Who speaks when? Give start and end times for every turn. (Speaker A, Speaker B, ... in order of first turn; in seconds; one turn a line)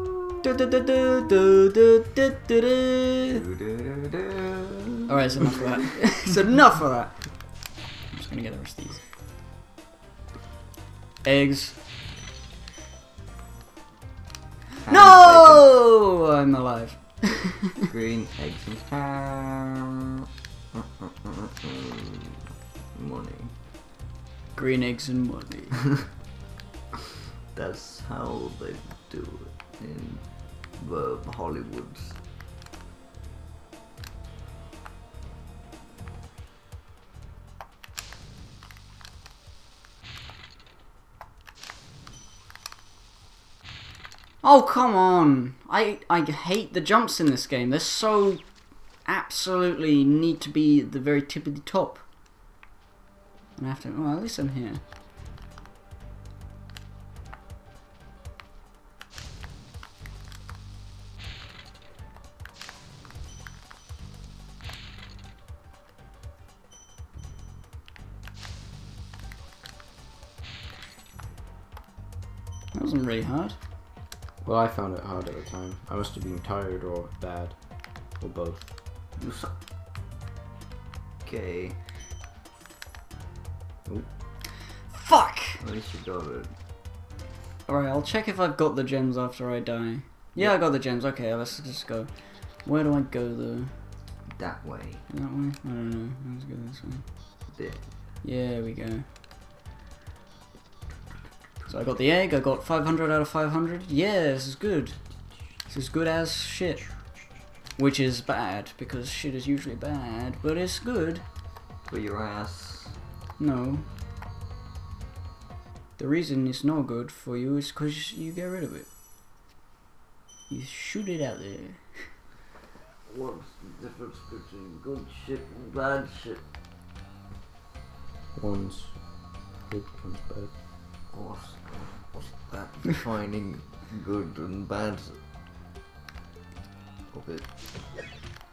Speaker A: 0.4-3.4
Speaker B: 3.3-5.6
Speaker A: 5.1-9.0
Speaker A: 11.2-11.8
Speaker B: 14.9-15.7
Speaker A: 14.9-17.6
Speaker B: 17.9-19.8
Speaker B: 20.8-22.4
Speaker B: 22.9-23.5
Speaker A: 24.6-25.9
Speaker B: 27.5-32.2
Speaker A: 44.4-52.1
Speaker A: 53.6-54.8
Speaker A: 72.7-73.6
Speaker C: 74.4-78.7
Speaker B: 79.2-79.5
Speaker B: 81.2-81.8
Speaker A: 84.8-85.6
Speaker B: 85.6-86.5
Speaker A: 87.7-93.7
Speaker B: 94.3-95.0
Speaker A: 95.1-97.1
Speaker B: 97.5-97.8
Speaker A: 98.2-99.1
Speaker A: 101.7-111.2
Speaker B: 111.8-113.0
Speaker A: 113.4-113.9
Speaker A: 116.0-118.9
Speaker A: 120.5-122.2
Speaker B: 123.1-126.4
Speaker C: 128.3-130.5
Speaker B: 131.1-135.2
Speaker B: 137.1-137.5